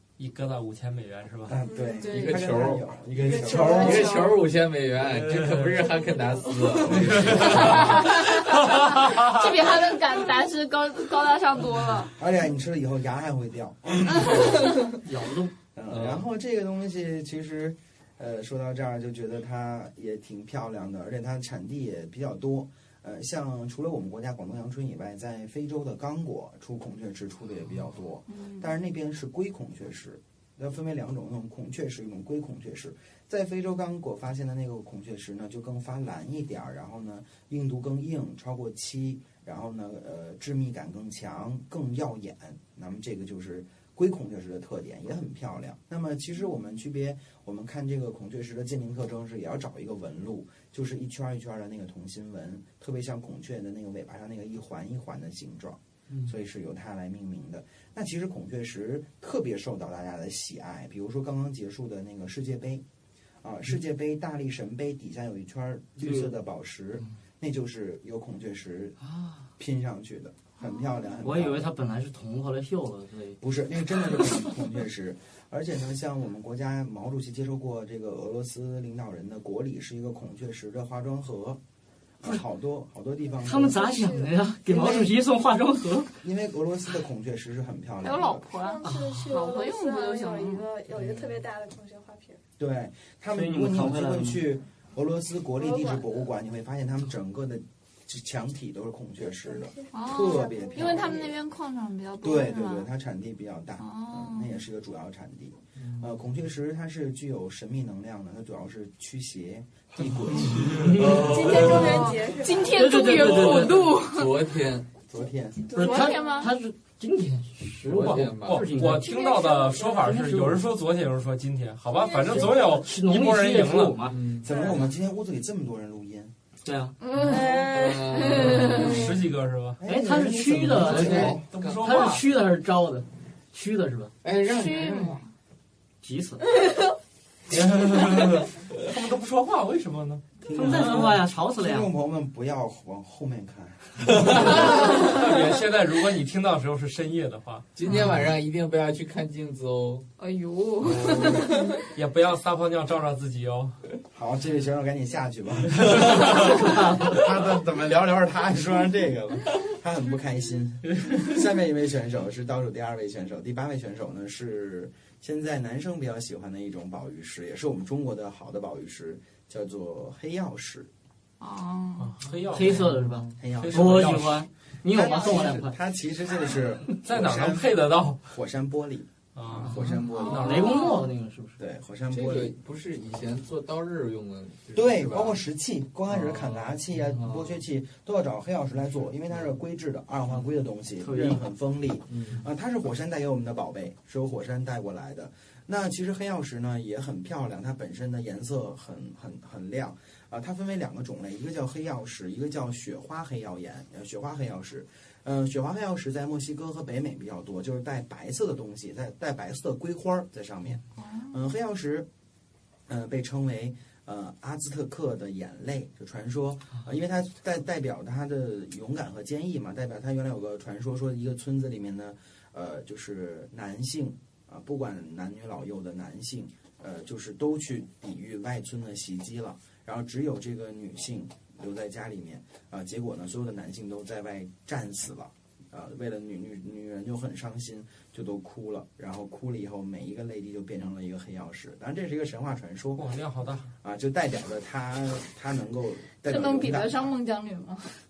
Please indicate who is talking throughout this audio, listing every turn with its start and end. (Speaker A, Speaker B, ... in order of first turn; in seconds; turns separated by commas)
Speaker A: 0.2-1.6, Speaker B: 1.5-4.2, Speaker C: 1.9-2.7, Speaker D: 2.1-8.1, Speaker C: 3.3-4.4, Speaker A: 5.1-5.8, Speaker A: 6.9-9.5, Speaker C: 7.6-12.1, Speaker B: 12.2-14.7, Speaker C: 14.3-14.9, Speaker E: 15.0-16.1, Speaker B: 15.8-62.8, Speaker C: 28.3-28.7, Speaker B: 63.4-69.0, Speaker E: 66.0-66.3, Speaker E: 69.1-69.4, Speaker B: 69.6-71.7, Speaker C: 70.6-71.2, Speaker E: 71.2-73.4, Speaker B: 73.4-81.6, Speaker B: 82.2-83.8, Speaker F: 83.3-84.5, Speaker E: 83.4-86.1, Speaker B: 84.7-85.1, Speaker B: 86.2-88.5, Speaker C: 88.0-90.7, Speaker F: 88.5-92.4, Speaker E: 88.8-89.3, Speaker B: 92.6-101.4, Speaker E: 93.3-94.5, Speaker F: 95.6-96.3, Speaker F: 99.2-101.3, Speaker C: 99.9-102.9, Speaker B: 102.2-111.2, Speaker C: 103.8-104.6, Speaker D: 105.8-106.1, Speaker A: 110.3-112.0, Speaker D: 110.6-111.3, Speaker E: 110.8-111.3, Speaker C: 111.0-114.4, Speaker F: 111.0-113.0, Speaker E: 112.7-113.9, Speaker D: 113.0-114.9, Speaker B: 115.1-115.6, Speaker F: 115.7-116.5, Speaker C: 115.7-116.5, Speaker E: 115.7-120.7, Speaker D: 117.9-118.9, Speaker A: 117.9-124.0, Speaker C: 119.0-119.7, Speaker F: 119.0-120.0, Speaker C: 122.0-122.4, Speaker E: 122.4-124.2, Speaker D: 124.0-124.5, Speaker B: 124.4-126.3, Speaker F: 124.5-124.9, Speaker E: 126.7-127.0, Speaker C: 127.0-129.2, Speaker F: 127.3-128.2, Speaker D: 127.3-129.1, Speaker A: 128.3-129.8, Speaker B: 128.4-128.8, Speaker B: 129.8-131.4, Speaker E: 129.8-134.1, Speaker A: 130.9-132.2, Speaker D: 130.9-131.8, Speaker D: 134.2-135.2, Speaker C: 134.4-135.3, Speaker E: 136.0-136.5, Speaker A: 137.5-141.1, Speaker B: 140.4-145.0, Speaker E: 140.5-141.9, Speaker A: 144.2-147.7, Speaker D: 147.8-150.1, Speaker C: 150.2-151.8, Speaker A: 150.9-153.8, Speaker D: 151.2-151.7, Speaker B: 154.1-170.9, Speaker E: 156.4-157.2, Speaker C: 171.4-172.1, Speaker A: 172.0-172.9, Speaker E: 172.5-175.8, Speaker D: 172.8-173.3, Speaker B: 173.4-174.3, Speaker A: 173.6-174.4, Speaker B: 174.8-177.8, Speaker A: 177.1-178.3, Speaker B: 178.3-180.6, Speaker A: 179.4-181.0, Speaker E: 179.7-181.6, Speaker C: 180.1-181.1, Speaker B: 181.6-182.6, Speaker D: 182.1-185.4, Speaker B: 184.8-212.1, Speaker D: 186.1-186.6, Speaker E: 191.0-191.4, Speaker D: 192.1-192.4, Speaker C: 211.0-211.4, Speaker B: 212.9-243.1, Speaker A: 242.9-243.7, Speaker B: 243.8-247.1, Speaker C: 246.3-248.0